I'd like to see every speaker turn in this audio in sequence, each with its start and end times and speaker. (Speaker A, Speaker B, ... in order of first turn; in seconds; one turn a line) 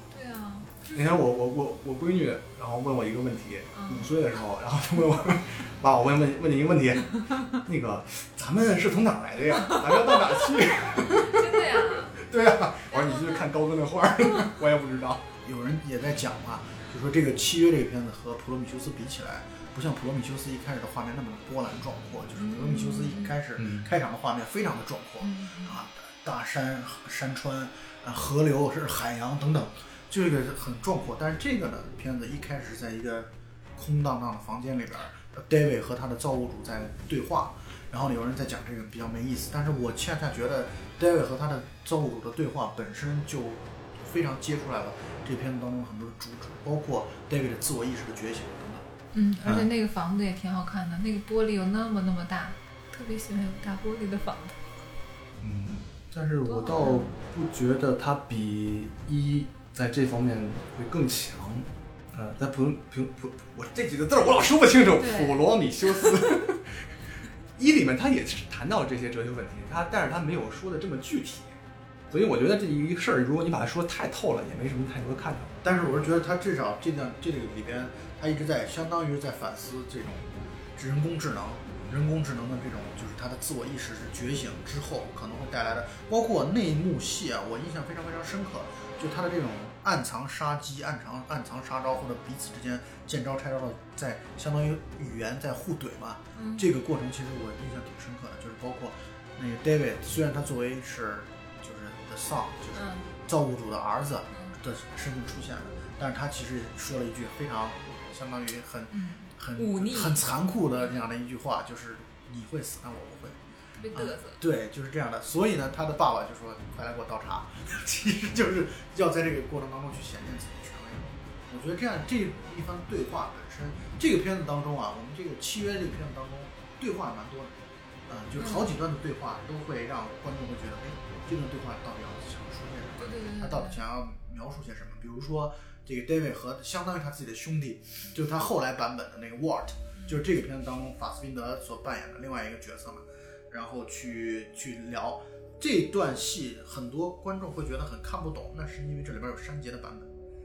Speaker A: 0.1-1.2
Speaker B: 0.9-15.3
Speaker A: 3.7-4.1
Speaker A: 11.1-12.2
Speaker A: 12.9-13.4
Speaker C: 15.4-48.9
Speaker A: 22.4-23.4
Speaker B: 23.6-23.9
Speaker A: 25.2-25.8
Speaker A: 49.1-54.6
Speaker B: 55.4-66.9
Speaker A: 56.5-57.1
Speaker A: 65.0-65.4
Speaker B: 67.6-71.6
Speaker B: 72.1-75.6
Speaker C: 75.6-113.4
Speaker A: 96.3-96.7
Speaker A: 102.7-103.1
Speaker A: 104.3-104.6
Speaker A: 108.9-110.3
Speaker A: 113.8-114.4
Speaker C: 113.9-150.1
Speaker A: 128.4-128.7
Speaker A: 133.0-133.8